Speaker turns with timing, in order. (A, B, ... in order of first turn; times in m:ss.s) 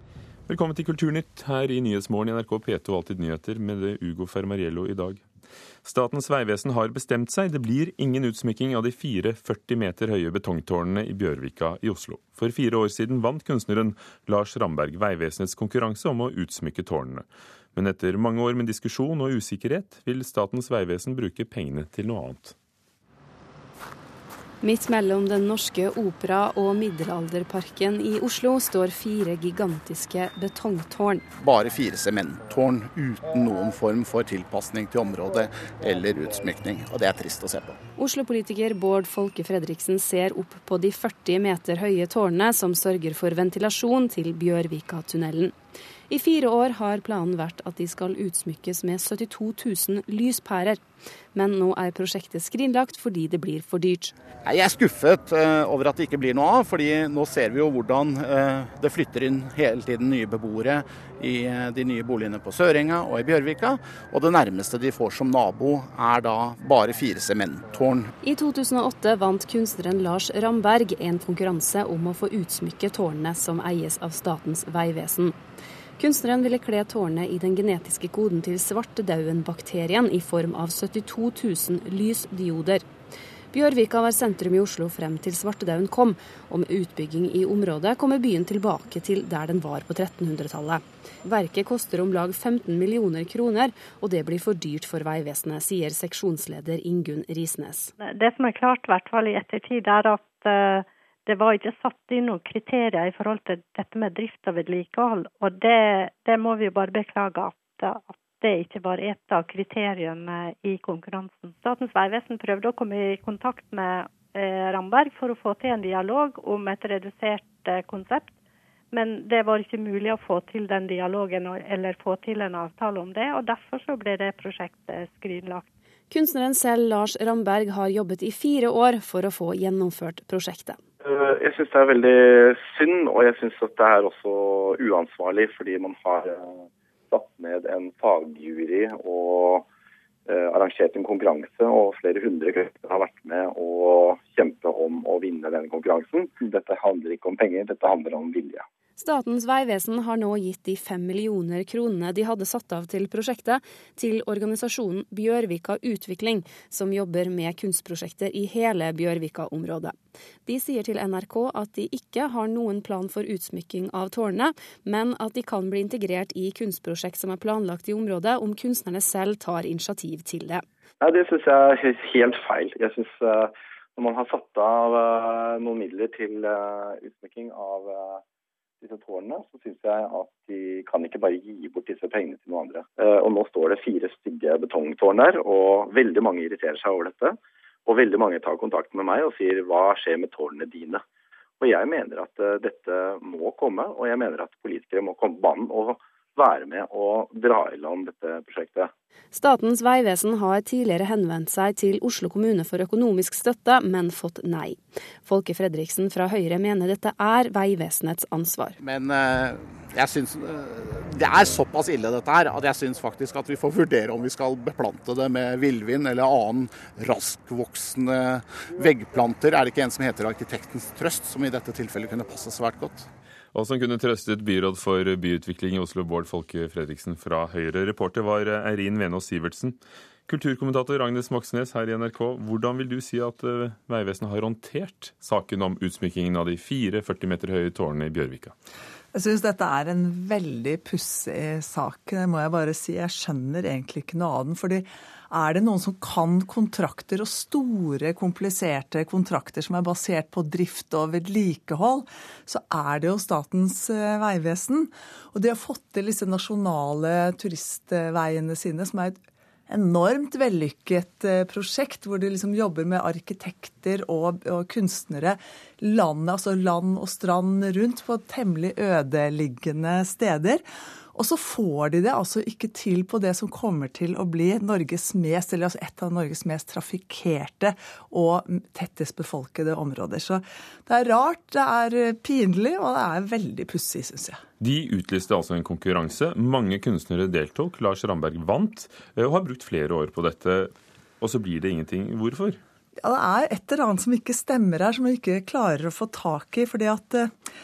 0:00.5-0:05.2 A
0:05.8-0:22.5 A
0:24.6-0:31.2 B
0:31.4-0:37.8 C
0:38.0-0:45.5 B
0:46.1-0:50.8 B
0:51.3-0:54.1 B
0:54.4-1:08.1 C
1:08.2-1:15.4 B
1:16.0-1:22.8 B
1:23.5-1:37.9 B
1:38.0-1:58.3 D
1:58.9-2:05.6 D
2:06.1-2:10.8 B
2:11.0-2:19.6 E
2:20.2-2:28.6 E
2:29.0-2:50.6 B
2:51.0-2:58.2 E
2:58.8-3:11.0 E
3:11.6-3:18.9 E
3:19.3-3:28.8 B
3:28.8-3:43.1 C
3:43.5-3:49.8 A
3:50.3-3:58.5 A
3:59.1-4:30.6 F
4:31.1-4:44.4 F
4:44.6-4:52.6 A
4:53.0-4:57.3 F